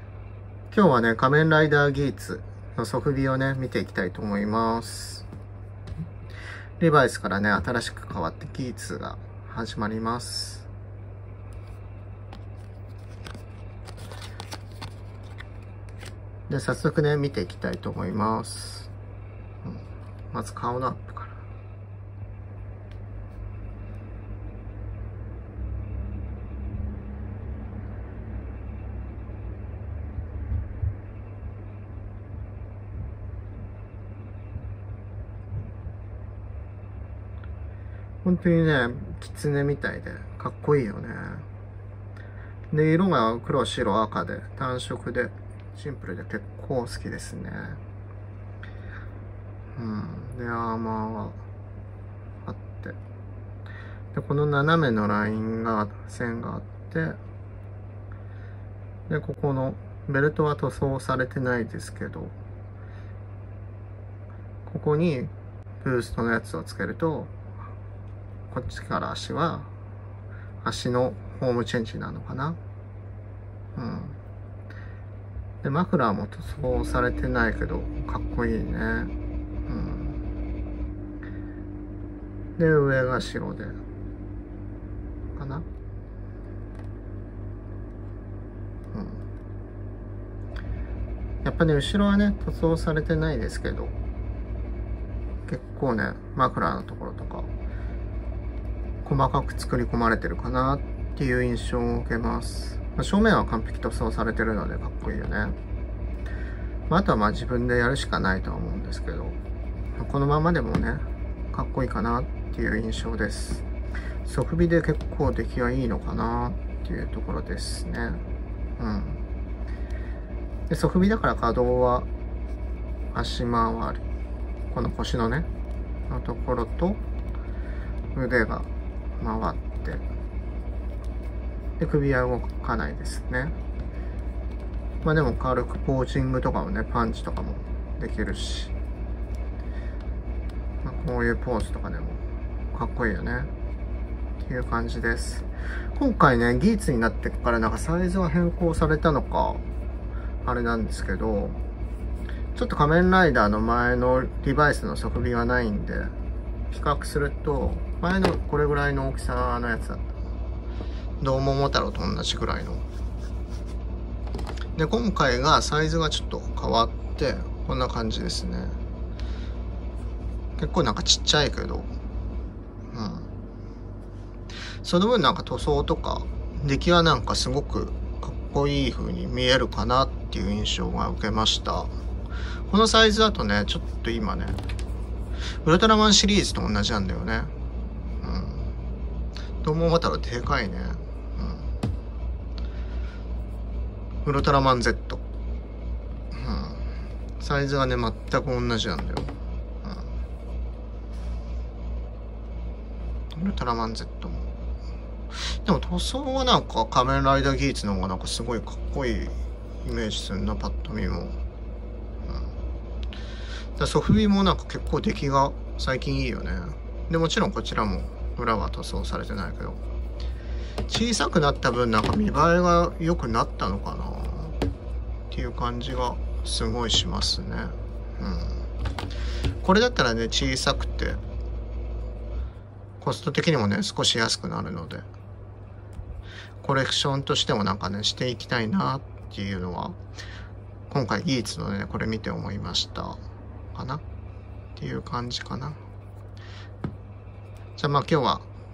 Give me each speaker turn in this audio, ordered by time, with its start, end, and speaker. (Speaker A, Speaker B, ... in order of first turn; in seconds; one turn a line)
Speaker A: 0.7-5.2
Speaker A: 6.8-10.7
Speaker A: 16.5-18.9
Speaker A: 19.6-21.4
Speaker A: 38.2-41.5
Speaker A: 42.7-47.8
Speaker A: 49.8-51.4
Speaker A: 52.4-53.0
Speaker A: 54.1-57.2
Speaker A: 59.1-62.4
Speaker A: 64.6-67.3
Speaker A: 68.5-69.7
Speaker A: 70.6-72.6
Speaker A: 73.7-74.2
Speaker A: 75.6-79.1
Speaker A: 79.7-80.2
Speaker A: 82.6-83.8
Speaker A: 85.3-85.7
Speaker A: 88.9-89.2
Speaker A: 91.4-94.0
Speaker A: 95.5-97.5
Speaker A: 99.0-105.5
Speaker A: 106.9-109.4
Speaker A: 110.0-113.7
Speaker A: 114.2-118.2
Speaker A: 118.8-119.2
Speaker A: 120.7-122.1
Speaker A: 123.1-124.0
Speaker A: 124.7-125.5
Speaker A: 126.1-127.0
Speaker A: 128.1-130.0
Speaker A: 131.8-133.5
Speaker A: 135.0-138.7
Speaker A: 140.8-143.5
Speaker A: 144.4-149.6
Speaker A: 150.4-151.6
Speaker A: 152.5-156.1
Speaker A: 156.7-160.1
Speaker A: 161.2-162.8
Speaker A: 164.7-168.8
Speaker A: 170.6-171.9
Speaker A: 172.9-173.3
Speaker A: 174.8-181.9
Speaker A: 182.7-184.6
Speaker A: 185.6-187.5
Speaker A: 188.2-188.7
Speaker A: 189.6-191.7
Speaker A: 194.2-195.2
Speaker A: 196.3-196.9
Speaker A: 197.4-200.1
Speaker A: 203.3-204.5
Speaker A: 205.3-211.3
Speaker A: 213.8-219.8
Speaker A: 220.9-224.6
Speaker A: 225.3-228.6
Speaker A: 229.6-231.2
Speaker A: 233.0-235.1
Speaker A: 236.6-240.0
Speaker A: 240.9-243.2
Speaker A: 243.7-244.0
Speaker A: 244.8-245.8
Speaker A: 247.8-248.5